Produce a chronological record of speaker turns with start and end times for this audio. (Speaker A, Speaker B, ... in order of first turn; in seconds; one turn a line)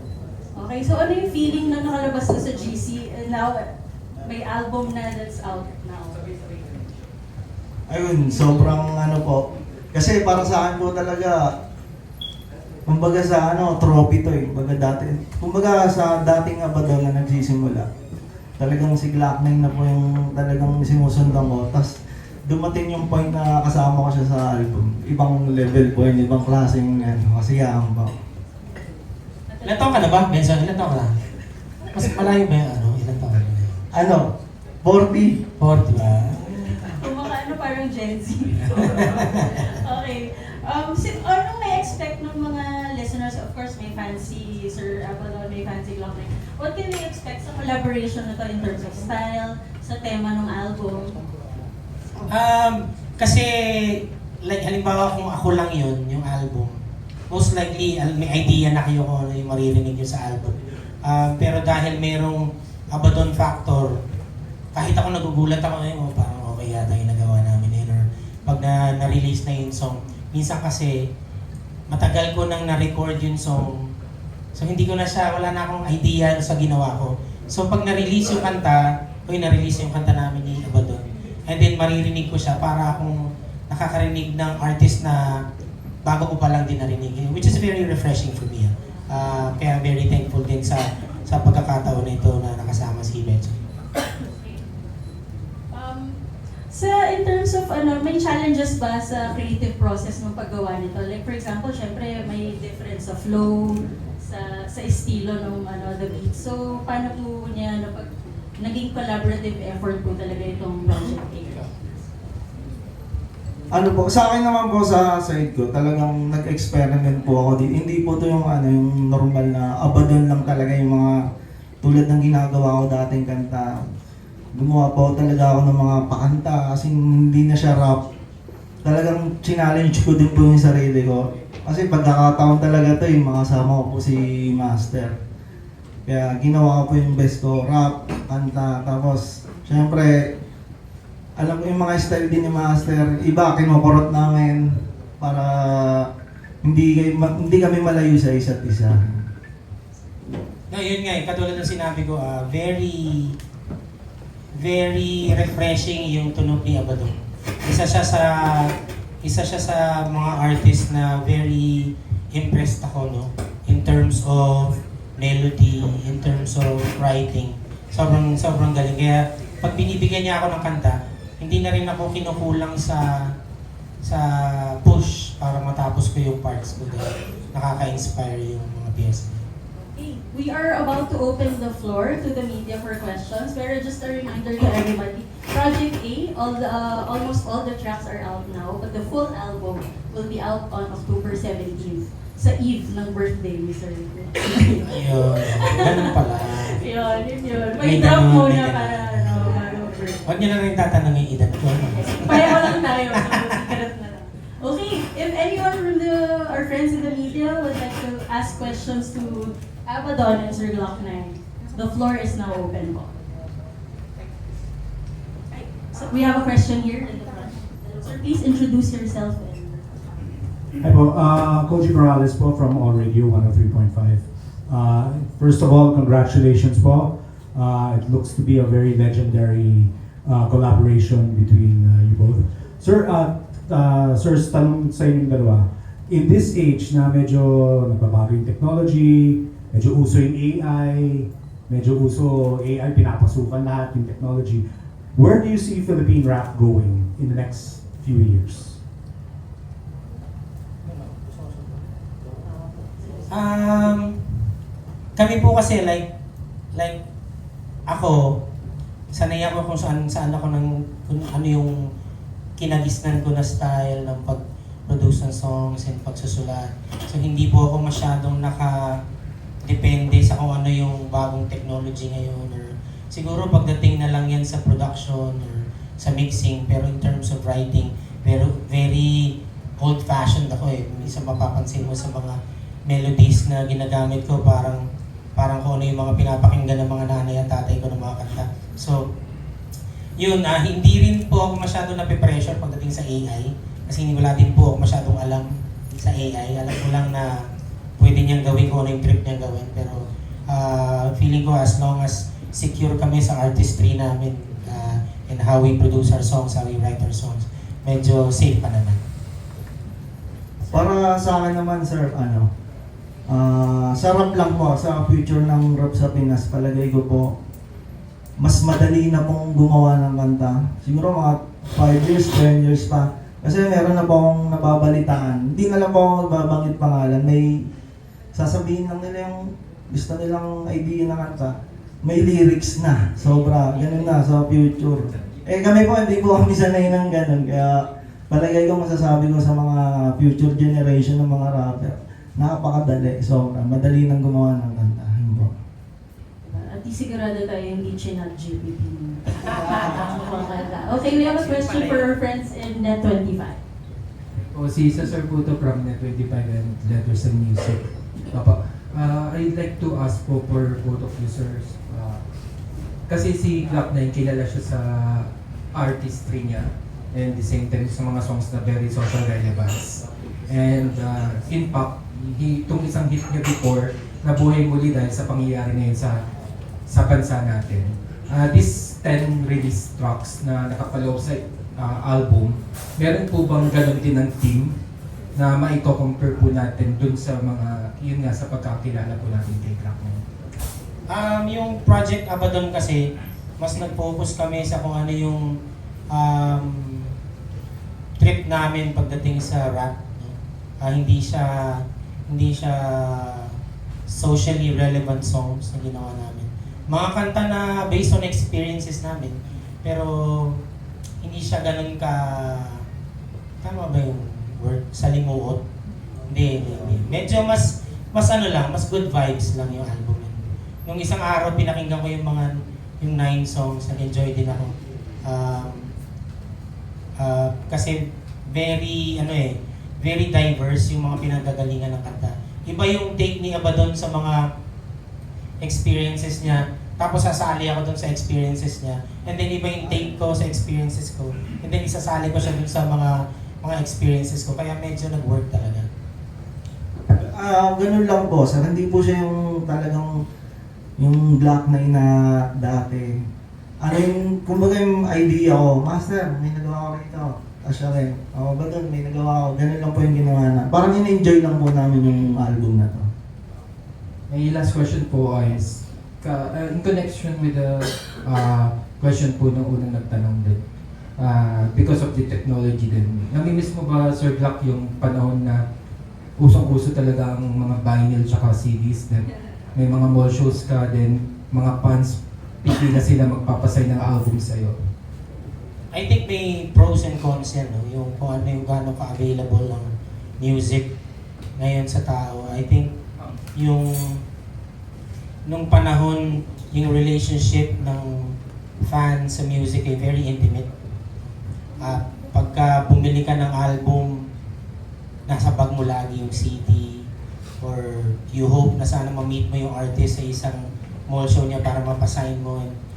Speaker A: 0.6-3.7
Speaker A: 4.2-6.2
Speaker B: 7.9-9.4
Speaker A: 8.3-8.7
Speaker B: 9.9-11.4
Speaker B: 12.9-17.9
Speaker B: 18.6-21.9
Speaker B: 22.5-28.1
Speaker A: 29.5-30.1
Speaker C: 29.6-31.1
Speaker C: 31.9-33.8
Speaker B: 33.9-34.3
Speaker B: 34.8-35.4
Speaker C: 35.6-36.6
Speaker A: 36.9-51.2
Speaker C: 52.3-56.8
Speaker C: 57.3-63.9
Speaker C: 64.8-71.0
Speaker C: 71.9-73.8
Speaker C: 74.5-83.2
Speaker C: 83.7-85.3
Speaker C: 86.0-93.6
Speaker A: 95.7-96.2
Speaker A: 96.7-108.1
Speaker A: 108.6-111.7
Speaker B: 113.7-121.2
Speaker B: 121.8-123.8
Speaker B: 124.6-128.0
Speaker B: 128.8-135.1
Speaker B: 136.1-140.3
Speaker B: 141.4-144.7
Speaker B: 145.2-146.1
Speaker B: 146.6-149.2
Speaker C: 150.7-153.3
Speaker C: 154.6-158.7
Speaker C: 159.2-173.2
Speaker C: 174.1-179.5
Speaker A: 179.8-196.0
Speaker C: 194.8-196.8
Speaker A: 196.8-200.3
Speaker C: 197.8-199.5
Speaker C: 200.2-202.7
Speaker A: 202.1-213.1
Speaker A: 215.5-219.8
Speaker D: 220.8-248.8
Speaker C: 253.3-254.1
Speaker C: 255.2-256.1
Speaker C: 257.9-258.4
Speaker C: 259.1-261.8
Speaker C: 262.6-268.9
Speaker C: 269.7-284.8
Speaker C: 285.4-289.0
Speaker C: 290.2-297.4
Speaker C: 298.0-309.0
Speaker B: 310.7-312.5
Speaker B: 313.3-317.3
Speaker B: 318.4-327.6
Speaker B: 328.3-345.5
Speaker A: 346.4-353.6
Speaker E: 354.5-362.2
Speaker E: 363.1-376.2
Speaker E: 376.9-384.7
Speaker E: 385.4-390.2
Speaker C: 391.1-393.0
Speaker C: 393.6-395.4
Speaker C: 396.1-397.1
Speaker C: 398.2-403.6
Speaker C: 404.1-410.6
Speaker C: 411.2-412.8
Speaker C: 413.6-415.6
Speaker C: 416.3-424.7
Speaker C: 425.3-425.9
Speaker C: 427.2-428.0
Speaker C: 428.5-434.4
Speaker C: 435.6-445.9
Speaker B: 447.1-450.1
Speaker B: 451.0-453.1
Speaker B: 453.8-463.1
Speaker E: 464.3-470.6
Speaker E: 471.2-475.6
Speaker E: 476.4-484.8
Speaker C: 485.9-490.9
Speaker C: 491.6-492.9
Speaker C: 493.6-494.2
Speaker C: 495.5-498.3
Speaker C: 498.9-500.7
Speaker C: 501.8-504.1
Speaker C: 505.3-507.1
Speaker C: 507.6-512.7